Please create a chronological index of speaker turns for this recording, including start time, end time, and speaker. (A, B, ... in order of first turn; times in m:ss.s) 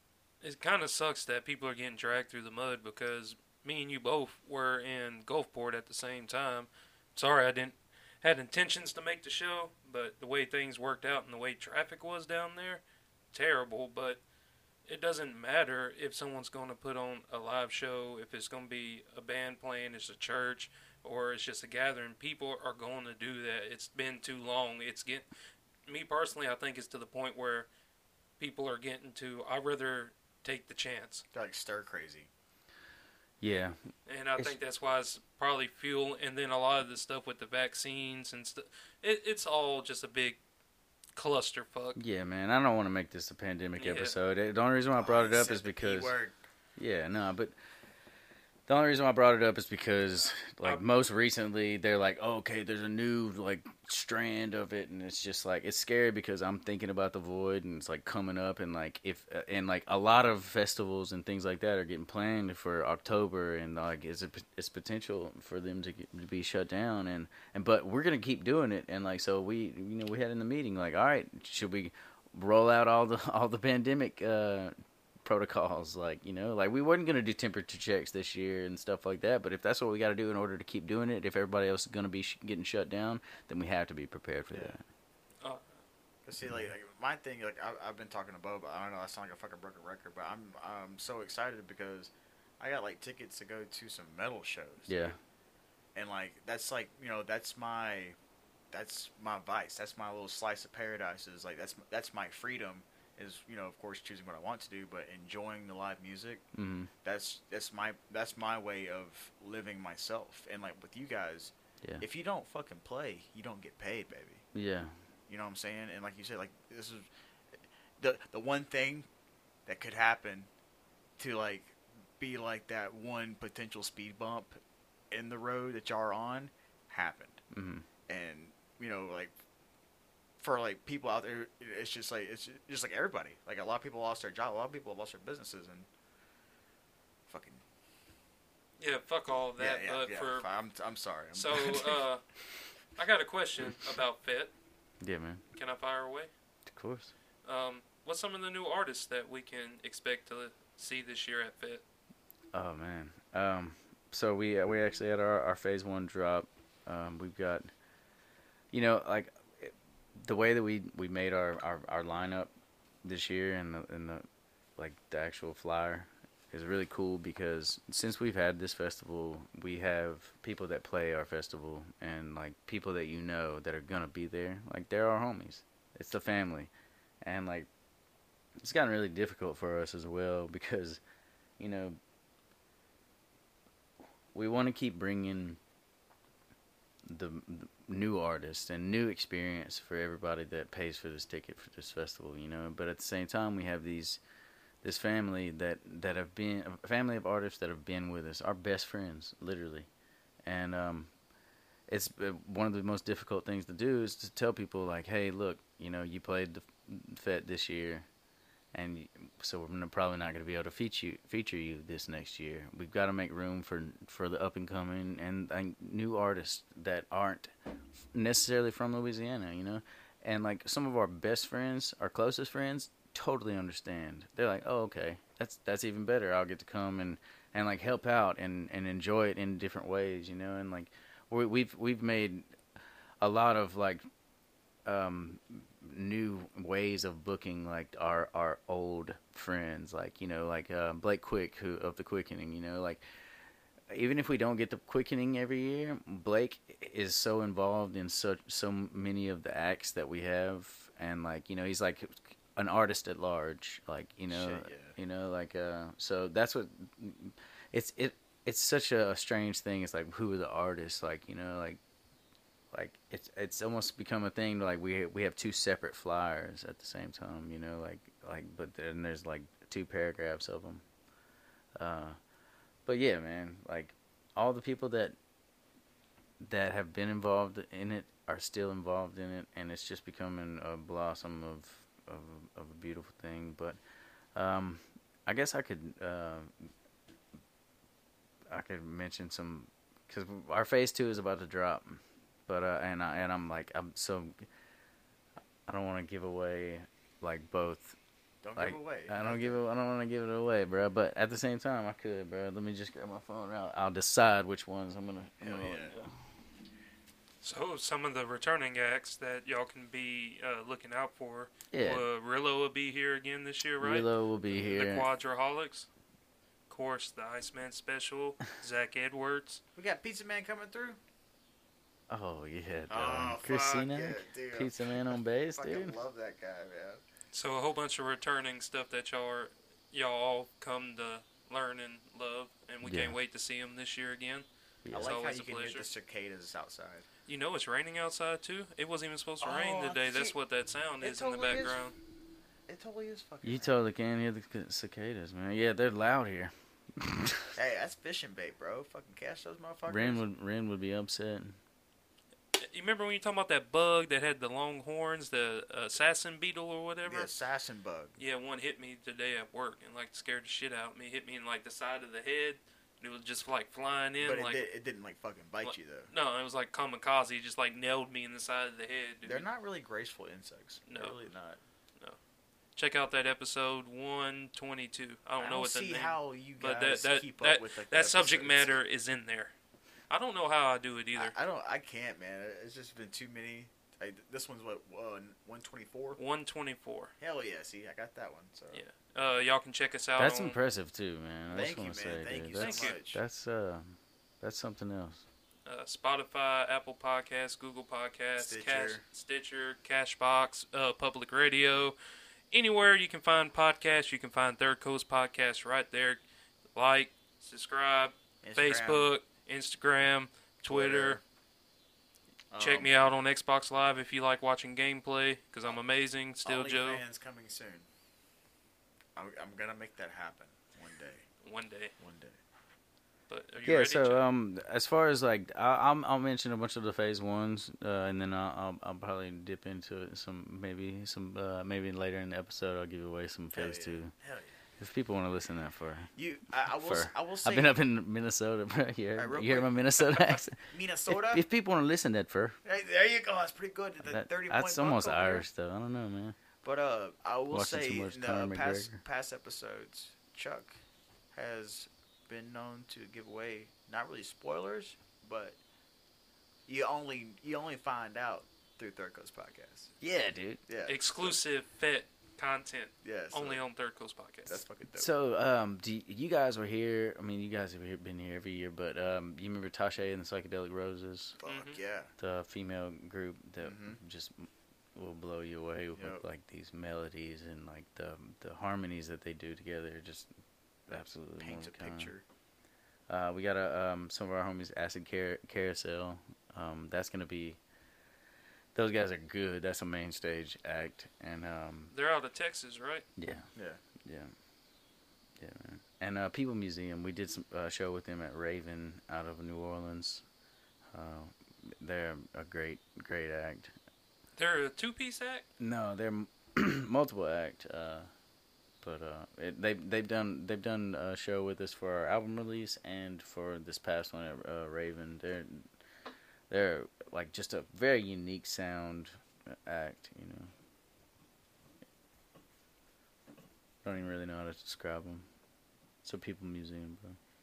0:00.4-0:14.2 A
0:14.8-0:25.3 A
0:25.8-0:27.7 A
0:28.4-0:31.2 A
0:31.3-0:32.3 B
0:33.4-0:34.6 C
0:34.0-0:40.4 A
0:41.1-0:42.0 A
0:42.0-0:46.1 C
0:43.8-0:44.1 A
0:44.9-0:46.4 B
0:46.8-0:47.6 C
0:48.7-1:14.7 C
1:15.2-1:24.8 C
1:24.5-1:24.8 B
1:25.4-1:25.7 A
1:26.2-1:35.1 B
1:34.9-1:35.2 C
1:35.9-1:38.2 B
1:38.7-1:46.4 B
1:46.5-1:46.9 C
1:47.0-1:54.4 B
1:54.5-1:55.0 C
1:55.3-1:57.1 B
1:58.0-1:59.1 B
1:59.6-2:00.5 B
2:01.2-2:04.6 B
2:05.1-2:07.4 B
2:07.5-2:07.8 C
2:08.1-2:09.3 B
2:10.4-2:15.9 B
2:17.3-2:17.6 B
2:18.8-2:20.5 A
2:19.6-2:22.0 B
2:21.3-2:22.2 A
2:22.9-2:24.5 A
2:25.0-2:25.4 C
2:25.5-2:26.3 A
2:26.6-2:27.1 C
2:27.4-2:31.8 A
2:32.5-2:37.7 C
2:38.7-2:42.5 C
2:43.0-2:44.2 C
2:44.8-2:57.7 C
2:58.6-3:01.0 C
3:01.6-3:02.0 C
3:04.3-3:05.6 C
3:07.0-3:14.2 C
3:14.8-3:19.9 C
3:20.4-3:21.1 C
3:21.9-3:28.0 C
3:28.7-3:37.5 C
3:38.1-3:52.5 C
3:53.2-3:54.0 C
3:54.8-4:03.0 C
4:03.9-4:21.8 C
4:14.3-4:15.0 B
4:22.7-4:30.8 C
4:31.8-4:32.2 C
4:32.8-4:35.2 C
4:36.4-4:43.8 C
4:44.3-4:46.7 C
4:48.5-4:54.4 C
4:55.6-4:58.0 C
4:58.4-4:59.6 B
4:58.6-5:06.3 C
5:05.4-5:05.9 B
5:07.4-5:15.9 A
5:11.7-5:12.0 C
5:13.8-5:15.1 C
5:16.7-5:19.6 A
5:19.8-5:21.0 B
5:22.1-5:26.0 C
5:22.9-5:27.0 B
5:27.3-5:35.9 A
5:32.8-5:33.2 C
5:34.8-5:35.2 C
5:34.9-5:37.0 B
5:37.3-5:41.9 A
5:39.4-5:40.3 B
5:41.0-5:41.9 B
5:42.7-5:43.8 B
5:43.4-5:47.5 C
5:47.5-5:50.2 B
5:49.9-5:51.6 C
5:52.5-5:57.3 A
5:57.0-5:58.2 B
5:58.2-6:04.6 A
6:04.2-6:06.1 B
6:05.6-6:09.4 A
6:09.2-6:11.6 B
6:10.9-6:11.2 A
6:12.8-6:19.5 A
6:15.4-6:18.8 B
6:20.1-6:21.3 A
6:21.1-6:26.2 B
6:26.2-6:27.1 A
6:27.2-6:28.8 B
6:28.7-6:30.6 A
6:30.2-6:35.2 C
6:31.5-6:33.2 B
6:32.6-6:33.0 A
6:35.6-6:42.0 A
6:38.4-6:39.0 B
6:42.5-6:46.2 A
6:46.7-6:51.2 A
6:48.4-6:49.1 B
6:50.6-6:51.2 B
6:52.5-6:53.0 B
6:52.6-6:57.0 A
6:56.4-6:57.8 B
6:59.2-7:01.3 B
7:01.4-7:01.9 A
7:02.0-7:02.4 B
7:03.3-7:04.2 A
7:03.6-7:14.1 C
7:13.5-7:14.6 B
7:14.8-7:16.1 C
7:16.2-7:17.7 B
7:16.8-7:22.6 C
7:19.2-7:21.4 B
7:22.6-7:25.4 B
7:24.0-7:26.4 C
7:26.6-7:30.8 B
7:27.5-7:29.0 C
7:31.3-7:35.6 B
7:36.7-7:40.0 B
7:40.0-7:40.6 C
7:40.7-7:41.4 B
7:40.9-7:44.6 A
7:43.0-7:43.6 B
7:44.4-7:45.1 B
7:44.9-7:51.4 C
7:51.4-7:52.1 B
7:51.4-7:51.8 A
7:52.2-8:00.3 C
7:53.6-7:54.0 B
7:56.0-7:56.2 B
8:00.9-8:02.1 C
8:00.9-8:02.2 B
8:03.1-8:07.6 C
8:08.7-8:11.9 C
8:11.9-8:13.0 A
8:13.2-8:13.5 C
8:13.5-8:13.8 B
8:14.0-8:14.3 C
8:15.4-8:20.2 C
8:20.9-8:23.7 C
8:24.4-8:25.4 A
8:25.6-8:28.1 C
8:28.8-8:35.7 C
8:36.5-8:40.5 C
8:43.8-8:45.3 C
8:46.0-8:47.2 C